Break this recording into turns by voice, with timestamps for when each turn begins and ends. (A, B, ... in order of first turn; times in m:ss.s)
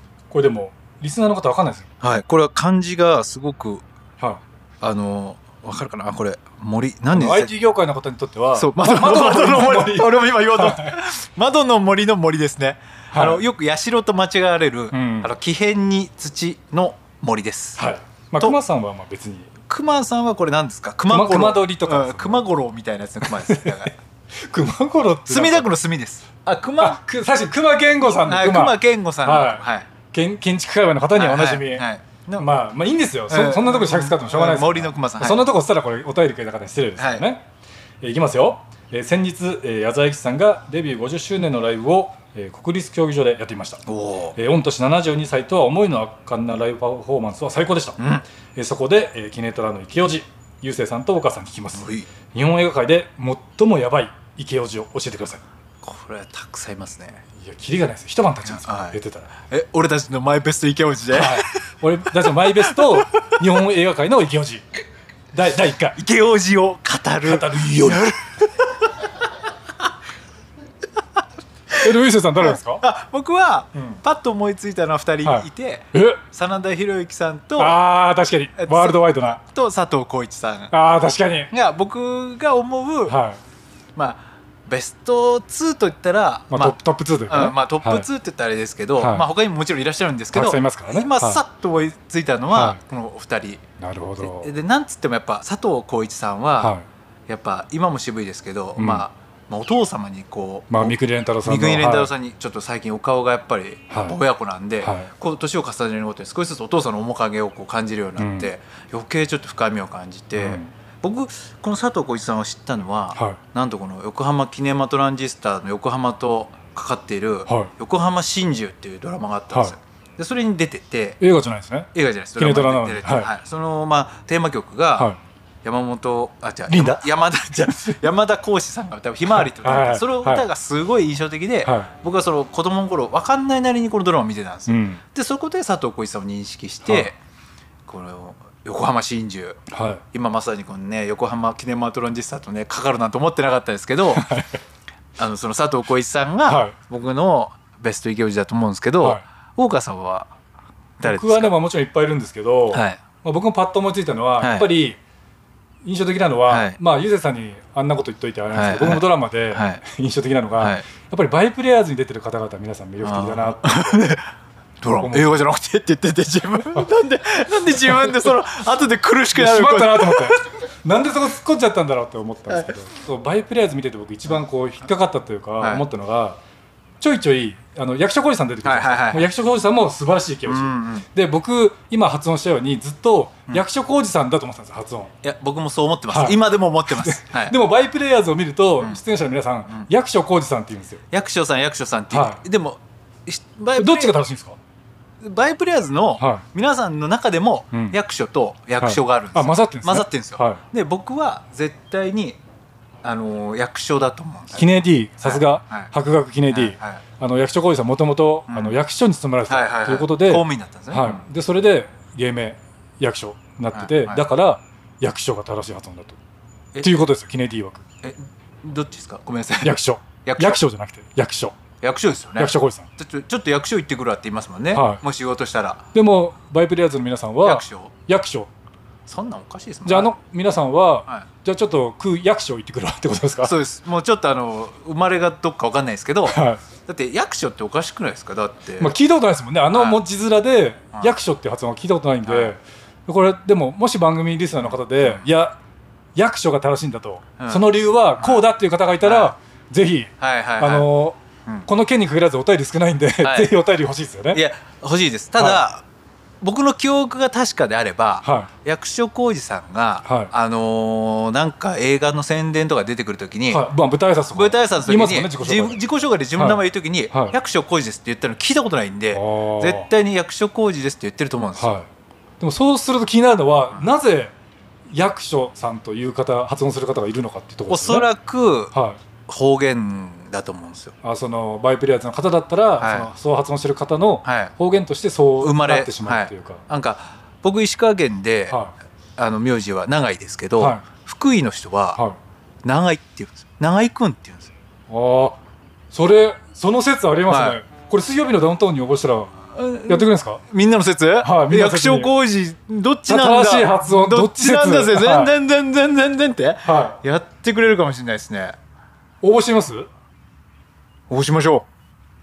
0:00.3-0:01.9 A
0:02.0-0:03.8 B
0:04.8-0:07.5 B
0:07.1-0:10.9 A
0:08.5-0:17.8 B
0:13.1-0:13.4 A
0:14.9-0:15.3 A
0:17.8-0:19.5 A
0:19.7-0:23.9 B
0:21.1-0:22.4 A
0:23.2-0:23.9 A
0:24.5-0:25.7 A
0:25.3-0:27.0 B
0:26.8-0:31.8 A
0:28.2-0:29.9 B
0:31.2-0:32.4 B
0:32.4-0:37.4 A
0:33.3-0:35.5 B
0:37.0-0:37.2 B
0:38.0-0:43.8 A
0:43.8-0:44.4 B
0:44.4-0:48.0 A
0:48.0-0:48.2 B
0:48.5-0:55.4 A
0:51.7-0:52.1 B
0:55.8-0:57.2 B
0:57.4-0:59.3 A
0:58.5-1:01.6 B
1:01.1-1:04.6 A
1:02.2-1:03.3 B
1:05.3-1:06.0 A
1:06.0-1:09.1 B
1:07.2-1:08.1 A
1:11.8-1:12.8 A
1:12.4-1:17.8 B
1:13.7-1:14.0 A
1:15.2-1:16.2 A
1:17.6-1:19.4 A
1:18.6-1:20.7 B
1:20.7-1:21.5 A
1:21.5-1:23.1 B
1:23.0-1:23.4 A
1:24.0-1:33.6 B
1:26.5-1:28.1 A
1:29.0-1:29.2 A
1:30.3-1:31.4 A
1:32.5-1:32.8 A
1:33.8-1:34.5 A
1:34.2-1:36.7 B
1:36.6-1:36.8 A
1:37.3-2:01.2 B
1:38.8-1:39.0 A
1:40.7-1:42.1 A
1:43.9-1:44.2 A
1:44.8-1:45.1 A
1:48.2-1:48.5 A
1:50.3-1:50.7 A
1:57.4-1:57.7 A
2:01.2-2:03.3 A
2:01.9-2:05.1 B
2:05.6-2:17.2 B
2:06.7-2:08.0 A
2:09.3-2:10.4 A
2:11.6-2:11.9 A
2:14.7-2:15.0 A
2:16.8-2:17.1 A
2:17.9-2:19.6 B
2:19.7-2:20.0 A
2:20.1-2:24.2 B
2:24.2-2:24.6 A
2:25.2-2:30.3 B
2:26.4-2:26.8 A
2:31.0-2:31.5 B
2:31.0-2:35.0 A
2:32.7-2:33.0 B
2:34.4-2:34.7 B
2:35.8-2:44.0 A
2:36.5-2:36.8 B
2:38.5-2:39.8 B
2:40.6-2:40.8 B
2:43.0-2:44.3 B
2:44.8-2:50.5 B
2:44.8-2:45.4 A
2:47.8-2:48.3 A
2:49.3-2:56.4 A
2:52.5-2:52.7 B
2:57.0-3:05.1 A
2:58.6-2:59.3 B
3:00.4-3:01.0 B
3:05.2-3:07.5 B
3:06.1-3:11.0 A
3:11.1-3:14.1 B
3:12.1-3:12.4 A
3:13.8-3:14.6 A
3:15.2-3:22.4 B
3:16.2-3:16.4 A
3:17.7-3:18.0 A
3:18.8-3:20.6 A
3:23.0-3:24.6 B
3:24.5-3:36.2 A
3:25.2-3:25.9 B
3:26.5-3:27.0 B
3:28.5-3:28.8 B
3:29.5-3:31.2 B
3:33.7-3:34.2 B
3:36.8-3:37.8 A
3:38.0-3:40.6 B
3:39.6-3:41.6 A
3:41.8-3:45.8 B
3:42.4-3:42.9 A
3:44.7-3:45.0 A
3:45.9-3:48.5 A
3:47.4-3:47.9 B
3:49.1-3:50.1 B
3:49.8-3:53.6 A
3:53.4-3:58.9 B
3:56.2-3:56.6 A
3:58.8-4:05.6 A
3:59.7-4:00.0 B
4:02.2-4:02.6 B
4:04.9-4:05.2 B
4:06.2-4:14.4 A
4:07.4-4:07.6 B
4:09.0-4:09.3 B
4:10.2-4:10.9 B
4:13.2-4:13.5 B
4:14.3-4:15.8 B
4:15.4-4:15.6 A
4:16.4-4:23.6 B
4:18.2-4:18.5 A
4:20.0-4:20.3 A
4:23.5-4:25.8 A
4:24.3-4:31.7 B
4:26.4-4:27.3 A
4:29.1-4:29.9 A
4:31.6-4:31.9 A
4:32.4-4:34.3 A
4:34.9-4:38.1 A
4:37.7-4:38.7 B
4:38.7-4:39.0 A
4:39.3-4:40.9 B
4:41.0-4:46.6 A
4:42.8-4:43.1 B
4:44.2-4:44.5 B
4:45.4-4:48.6 B
4:49.2-4:52.0 B
4:50.6-4:50.8 A
4:52.6-4:54.5 B
4:54.9-4:55.4 A
4:55.9-4:59.3 A
4:57.3-4:57.6 B
4:59.5-5:08.5 B
4:59.9-5:00.4 A
5:01.2-5:02.1 A
5:03.1-5:05.3 A
5:06.6-5:07.0 A
5:09.2-5:09.9 A
5:11.1-5:11.6 B